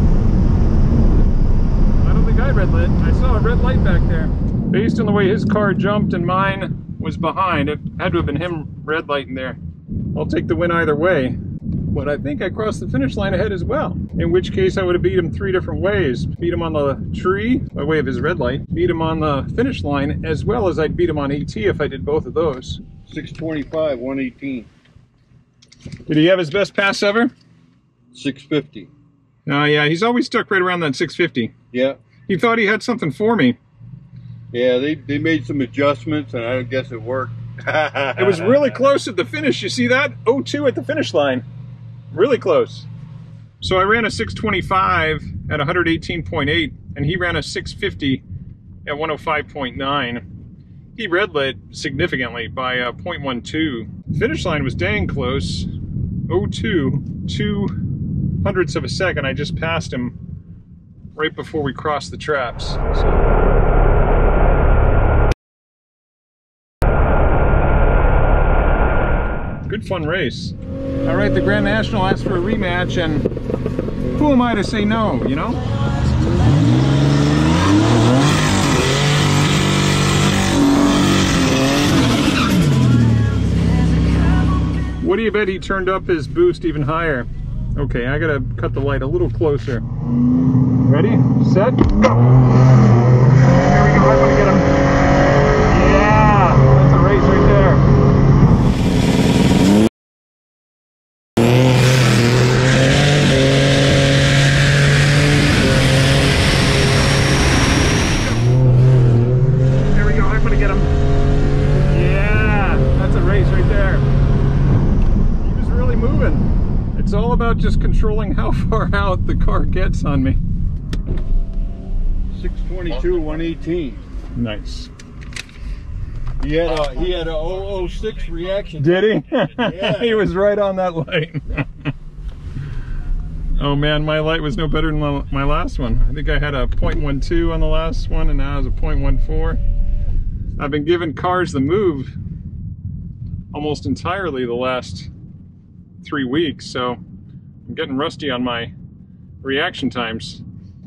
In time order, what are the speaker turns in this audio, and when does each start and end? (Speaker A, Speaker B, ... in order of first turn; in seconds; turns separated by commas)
Speaker A: 2.0-9.6, Speaker A: 10.1-22.8, Speaker B: 23.1-24.7, Speaker A: 26.1-27.3, Speaker B: 28.1-28.9, Speaker A: 29.5-31.5, Speaker B: 31.7-32.0, Speaker A: 32.3-33.6, Speaker B: 34.5-38.7, Speaker A: 38.2-41.5, Speaker A: 42.1-42.9, Speaker A: 43.6-48.2, Speaker A: 48.9-50.2, Speaker A: 51.0-55.7, Speaker A: 56.3-57.9, Speaker A: 58.4-60.2, Speaker A: 61.2-63.2, Speaker A: 69.7-73.3, Speaker A: 74.2-75.6, Speaker A: 85.0-89.8, Speaker A: 90.8-92.2, Speaker A: 93.5-94.8, Speaker A: 95.7-97.8, Speaker A: 109.9-111.0, Speaker A: 111.9-114.1, Speaker A: 115.4-120.4, Speaker B: 122.3-124.0, Speaker A: 124.4-124.9, Speaker B: 126.4-130.2, Speaker A: 128.8-131.9, Speaker A: 133.6-139.6, Speaker A: 140.6-142.2, Speaker A: 143.5-145.1, Speaker A: 146.0-147.0, Speaker A: 147.7-148.7, Speaker A: 149.4-150.4